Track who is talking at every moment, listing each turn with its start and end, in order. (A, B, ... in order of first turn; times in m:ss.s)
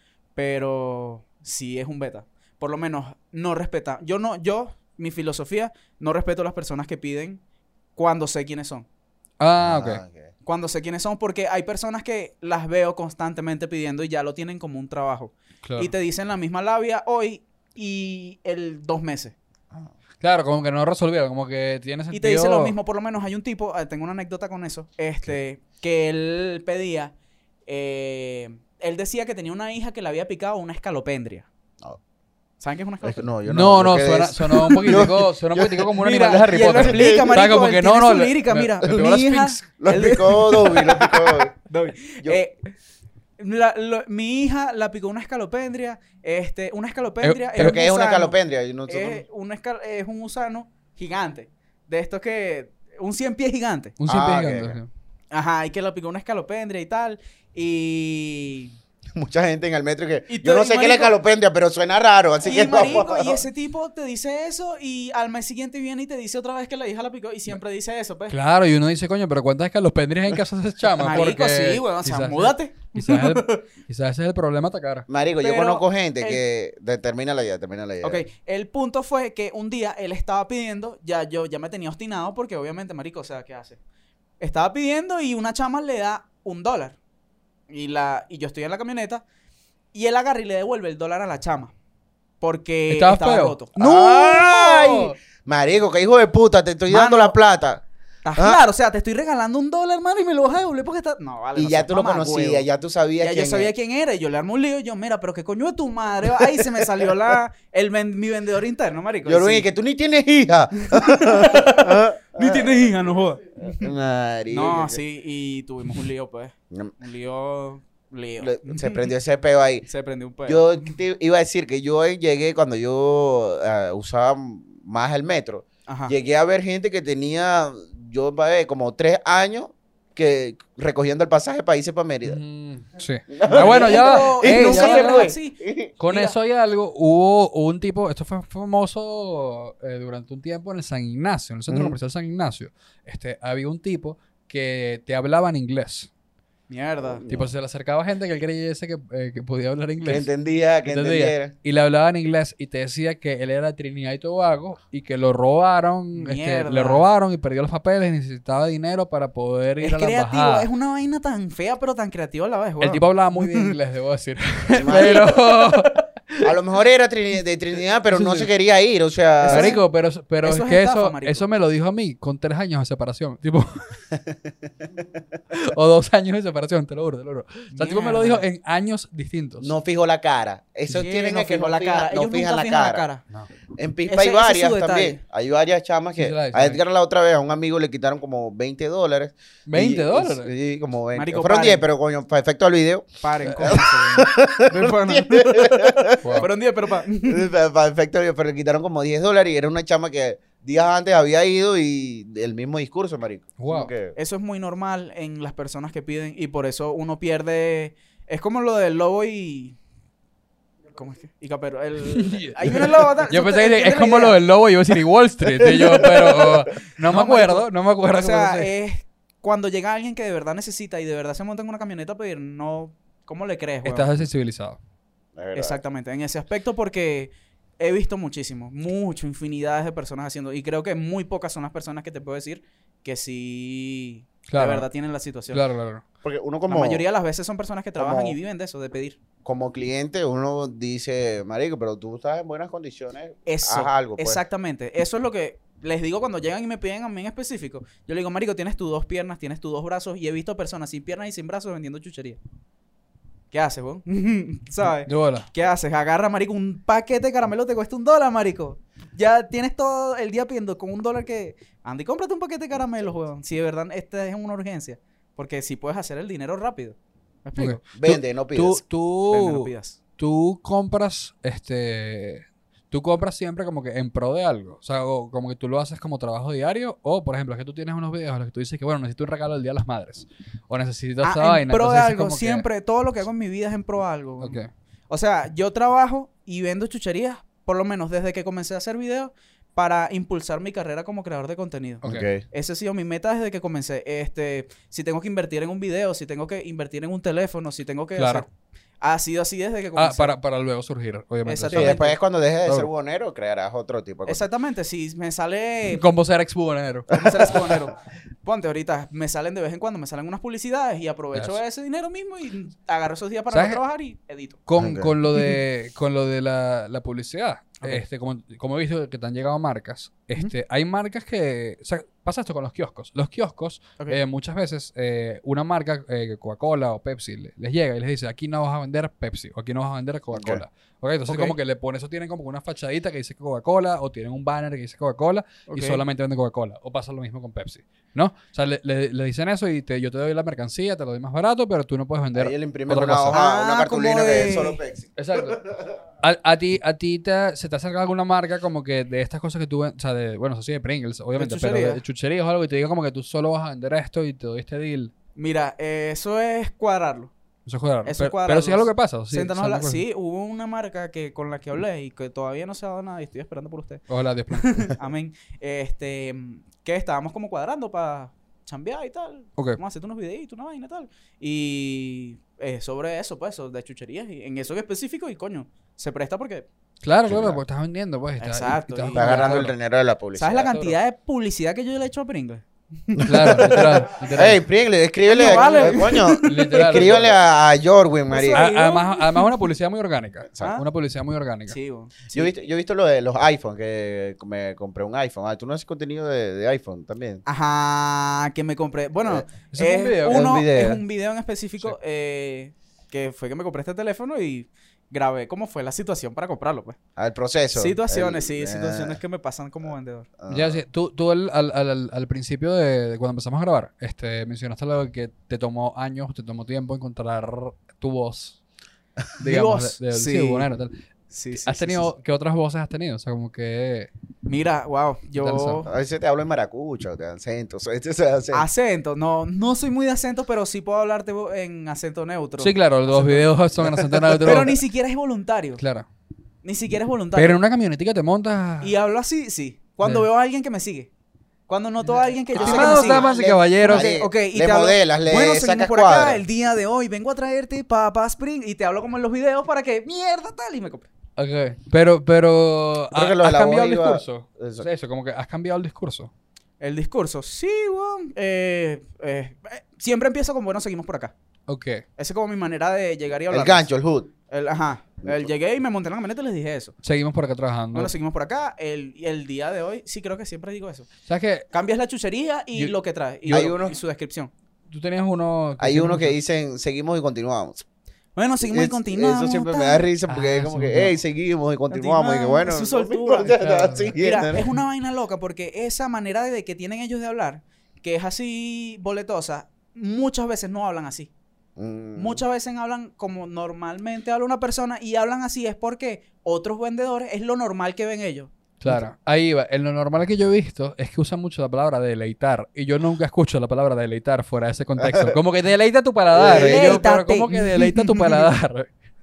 0:00.4-0:07.4 A
0:08.0-0:08.9 A
0:09.4-0:10.0 B
0:09.6-0:10.3 C
0:10.4-0:19.4 A
0:15.6-0:15.9 B
0:20.2-0:22.8 B
0:22.1-0:27.1 A
0:27.7-0:31.5 A
0:32.6-0:33.3 A
0:33.0-0:37.4 C
0:33.5-0:40.0 B
0:36.0-0:42.7 A
0:39.8-0:41.6 C
0:43.4-0:54.0 A
0:47.2-0:47.8 B
0:47.6-0:49.2 C
0:54.0-0:54.9 B
0:54.1-0:54.8 C
0:55.3-0:58.8 A
0:59.2-1:03.4 C
1:00.3-1:01.2 A
1:02.4-1:08.4 A
1:08.3-1:15.1 B
1:11.0-1:13.6 A
1:15.1-1:18.2 C
1:15.4-1:16.4 A
1:18.0-1:23.8 A
1:24.4-1:27.0 A
1:27.7-1:29.2 A
1:29.9-1:31.7 A
1:32.4-1:35.0 A
1:32.9-1:33.6 B
1:33.8-1:37.8 C
1:36.9-1:37.4 A
1:38.2-1:42.7 A
1:41.6-1:43.7 C
1:43.2-1:49.7 A
1:49.2-1:52.8 C
1:50.9-1:53.9 A
1:53.6-1:55.0 C
1:54.5-1:59.1 A
1:58.4-1:59.9 C
1:59.9-2:00.7 A
2:00.5-2:12.4 C
2:05.9-2:06.2 A
2:12.2-2:15.4 B
2:13.3-2:15.9 C
2:13.5-2:16.4 A
2:16.0-2:26.1 B
2:21.7-2:22.0 C
2:26.7-2:27.2 A
2:27.0-2:27.5 C
2:27.3-2:30.3 B
2:30.0-2:31.5 C
2:30.9-2:40.7 B
2:36.2-2:37.0 A
2:39.8-2:43.7 A
2:42.8-2:46.6 B
2:44.7-2:45.4 C
2:46.4-2:49.7 C
2:48.1-2:48.5 B
2:49.4-2:49.8 A
2:49.5-2:54.1 B
2:50.4-2:51.5 A
2:54.2-2:54.5 C
2:55.5-2:59.7 B
2:57.7-2:58.4 A
2:59.6-3:03.1 C
3:00.9-3:03.2 A
3:03.8-3:16.4 C
3:04.1-3:05.2 A
3:06.2-3:06.8 B
3:09.7-3:10.5 B
3:11.2-3:11.8 A
3:13.2-3:17.5 A
3:13.5-3:13.8 B
3:16.2-3:16.5 B
3:17.2-3:24.2 C
3:23.6-3:23.9 B
3:24.2-3:29.8 A
3:30.9-3:34.4 A
3:32.1-3:38.7 B
3:37.0-3:44.1 A
3:43.8-3:44.8 B
3:45.4-3:45.8 C
3:45.6-3:55.6 A
3:54.5-3:54.9 B
3:55.5-3:56.0 B
3:56.2-3:57.0 C
3:56.7-3:59.2 A
3:58.0-3:58.4 C
3:59.4-4:04.4 C
4:03.5-4:12.4 A
4:13.5-4:27.8 A
4:15.0-4:15.5 B
4:27.6-4:42.6 B
4:27.9-4:28.8 C
4:29.3-4:30.0 A
4:41.2-4:44.6 A
4:44.4-4:44.7 B
4:45.1-4:58.5 A
4:52.0-4:52.4 C
4:58.2-4:58.4 B
4:59.0-5:00.3 A
5:00.0-5:02.1 B
5:01.5-5:02.2 A
5:01.7-5:04.4 C
5:04.3-5:06.0 A
5:05.9-5:07.1 B
5:07.1-5:14.6 A
5:07.3-5:07.6 C
5:13.5-5:13.8 B
5:14.7-5:43.4 B
5:14.8-5:15.2 C
5:30.3-5:30.6 C
5:31.3-5:31.6 A
5:35.7-5:36.0 A
5:42.3-5:45.8 C
5:43.3-5:44.8 A
5:45.2-5:45.6 B
5:46.2-5:55.1 B
5:51.4-5:52.0 A
5:55.4-5:57.3 A
5:57.7-6:00.0 B
5:58.0-6:16.7 A
6:04.1-6:05.0 B
6:17.0-6:19.7 B
6:17.2-6:17.6 C
6:18.4-6:19.7 A
6:19.1-6:20.9 C
6:20.4-6:23.8 A
6:23.1-6:28.6 C
6:23.2-6:24.6 B
6:25.2-6:27.2 A
6:25.4-6:27.3 B
6:28.3-6:29.6 A
6:28.5-6:31.8 B
6:30.5-6:30.8 C
6:31.7-6:32.6 A
6:32.3-6:37.4 C
6:37.5-6:47.0 A
6:39.7-6:40.6 B
6:40.2-6:41.0 C
6:47.2-6:49.2 C
6:47.7-6:50.3 A
6:50.4-6:50.8 C
6:50.5-6:58.6 B
6:59.4-7:00.9 B
6:59.4-7:00.7 A
7:01.3-7:02.1 A
7:01.7-7:04.1 B
7:04.5-7:05.9 A
7:05.4-7:05.9 B
7:05.9-7:08.7 C
7:08.5-7:13.5 A
7:12.6-7:14.8 B
7:14.3-7:14.7 C
7:14.3-7:15.8 A
7:15.8-7:16.1 B
7:16.6-7:17.6 A
7:17.4-7:18.9 B
7:18.8-7:21.1 A
7:21.7-7:23.3 A
7:22.6-7:24.2 B
7:22.6-7:26.4 C
7:23.8-7:31.1 A
7:31.4-7:36.3 B
7:33.1-7:34.9 C
7:36.8-7:41.3 A
7:41.7-7:42.0 B
7:42.2-7:43.9 A
7:43.5-7:44.3 C
7:44.5-7:46.9 A
7:45.2-7:45.5 C
7:47.0-7:48.1 B
7:47.9-7:51.1 A
7:51.3-7:51.7 B
7:51.7-7:54.5 A
7:53.5-7:54.0 C
7:54.9-7:56.4 B
7:55.8-7:57.8 C
7:58.4-8:00.1 A
7:58.7-8:04.7 C
8:00.3-8:01.2 B
8:01.9-8:03.6 A
8:03.6-8:04.2 B
8:04.2-8:11.3 A
8:11.8-8:12.4 C
8:12.2-8:18.5 A
8:18.8-8:28.9 B
8:25.0-8:25.4 C
8:26.3-8:27.0 C
8:26.4-8:28.5 A